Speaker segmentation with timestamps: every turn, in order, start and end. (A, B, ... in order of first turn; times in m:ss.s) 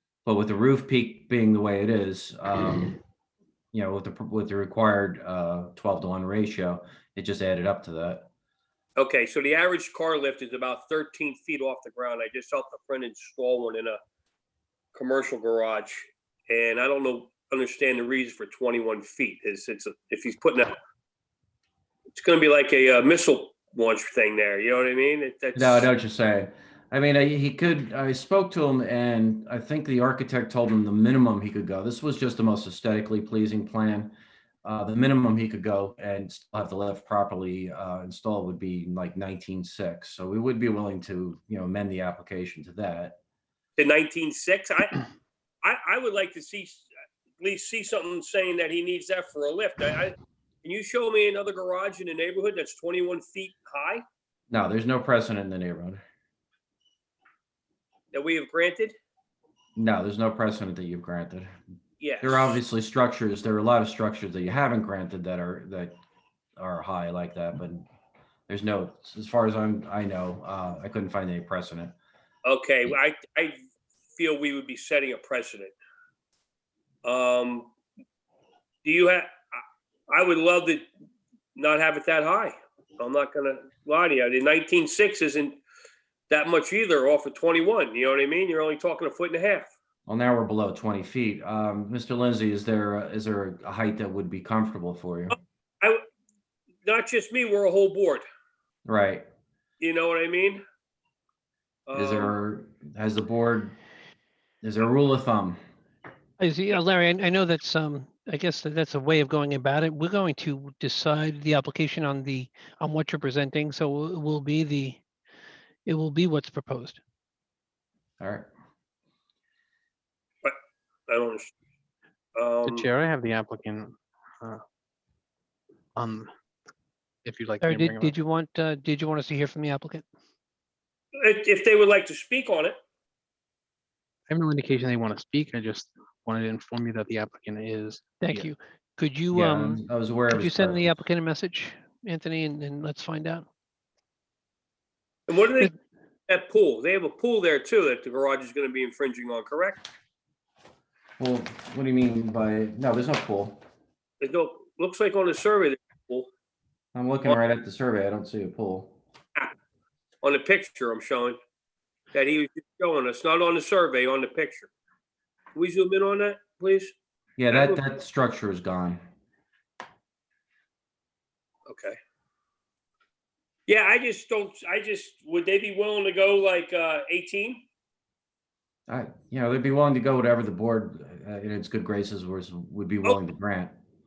0:00.2-0:03.0 A
0:03.7-0:08.3 A
0:09.0-0:14.0 B
0:14.9-0:20.7 B
0:22.1-0:25.9 B
0:25.5-0:43.2 A
0:43.8-0:45.0 B
0:45.6-0:46.8 B
0:47.4-0:54.0 B
0:54.5-0:56.0 A
0:58.1-0:58.9 B
0:59.8-1:01.5 A
1:02.0-1:02.6 B
1:02.2-1:06.0 A
1:06.6-1:07.9 A
1:08.5-1:11.9 A
1:12.4-1:13.6 B
1:14.2-1:15.7 B
1:17.0-1:17.7 B
1:18.8-1:20.9 B
1:21.6-1:25.6 B
1:26.3-1:29.7 B
1:30.1-1:35.4 A
1:36.8-1:38.2 B
1:38.8-1:39.2 A
1:39.8-1:40.6 B
1:41.9-1:42.3 B
1:41.9-1:43.8 A
1:44.6-1:45.6 A
1:46.4-1:55.0 C
1:55.8-1:57.0 C
1:58.2-1:58.5 A
2:01.1-2:01.5 B
2:02.4-2:02.8 B
2:02.6-2:04.6 D
2:06.0-2:06.3 D
2:07.2-2:08.1 D
2:07.6-2:10.0 C
2:11.2-2:12.7 B
2:14.3-2:18.5 D
2:18.2-2:23.4 C
2:19.3-2:20.9 A
2:25.3-2:25.7 B
2:26.3-2:29.8 B
2:31.2-2:33.6 A
2:34.2-2:36.3 B
2:36.9-2:39.0 A
2:40.2-2:41.4 B
2:42.1-2:44.7 B
2:45.5-2:46.9 B
2:47.4-2:49.0 A
2:47.5-2:47.8 B
2:51.7-2:52.0 B
2:53.7-2:57.6 B
2:58.9-3:03.8 A